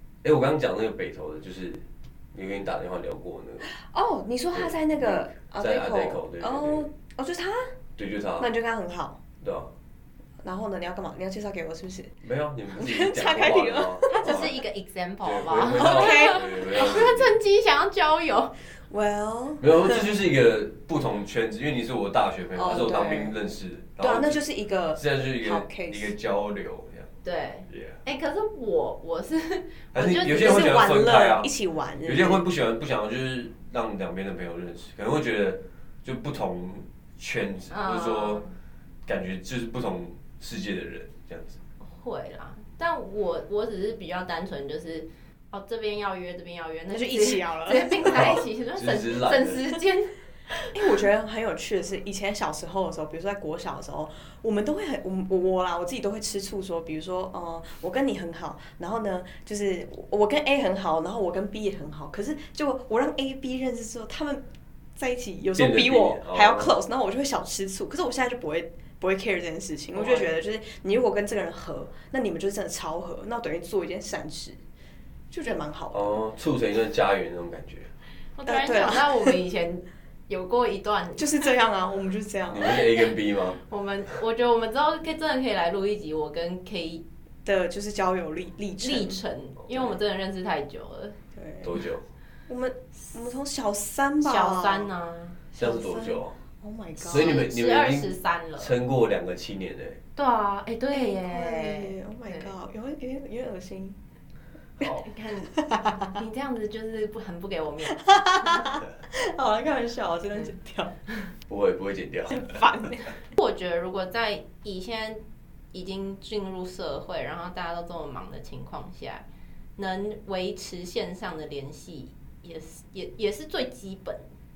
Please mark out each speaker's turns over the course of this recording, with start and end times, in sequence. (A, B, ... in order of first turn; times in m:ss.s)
0:00.2-0:03.7 A
0:03.7-0:07.8 B
0:04.5-0:06.9 A
0:08.0-0:08.5 A
0:08.4-0:09.2 B
0:09.4-0:09.7 A
0:10.4-0:12.2 B
0:12.2-0:14.5 A
0:12.7-0:14.5 B
0:14.1-0:18.6 C
0:15.2-0:17.4 A
0:15.7-0:16.8 B
0:18.9-0:20.1 B
0:19.6-0:24.4 A
0:22.6-0:23.4 B
0:24.0-0:26.1 B
0:24.9-0:27.1 A
0:27.2-0:30.8 C
0:27.7-0:28.0 A
0:29.9-0:31.5 A
0:30.2-0:32.4 B
0:32.0-0:38.4 A
0:37.7-0:38.5 C
0:39.1-0:41.6 A
0:41.8-0:50.8 C
0:46.9-0:48.4 B
0:48.0-0:49.6 A
0:50.7-1:04.4 B
1:05.0-1:14.6 B
1:05.6-1:06.7 A
1:15.3-1:16.2 B
1:15.9-1:17.9 A
1:18.4-1:21.4 C
1:18.5-1:19.4 B
1:21.2-1:22.8 B
1:22.5-1:23.6 A
1:23.6-1:27.0 C
1:27.4-1:29.2 B
1:28.8-1:31.2 C
1:29.6-1:29.9 A
1:31.4-1:31.7 B
1:31.6-1:32.0 A
1:32.5-1:34.9 B
1:34.2-1:35.4 C
1:35.5-1:37.4 B
1:35.6-1:36.4 A
1:37.0-1:40.0 A
1:37.1-1:38.7 C
1:40.2-1:42.5 C
1:40.9-1:44.0 B
1:44.8-1:45.0 A
1:44.8-1:48.7 C
1:48.0-1:51.0 B
1:51.5-1:52.6 A
1:52.3-1:53.1 B
1:53.3-1:59.2 C
1:59.8-2:04.3 C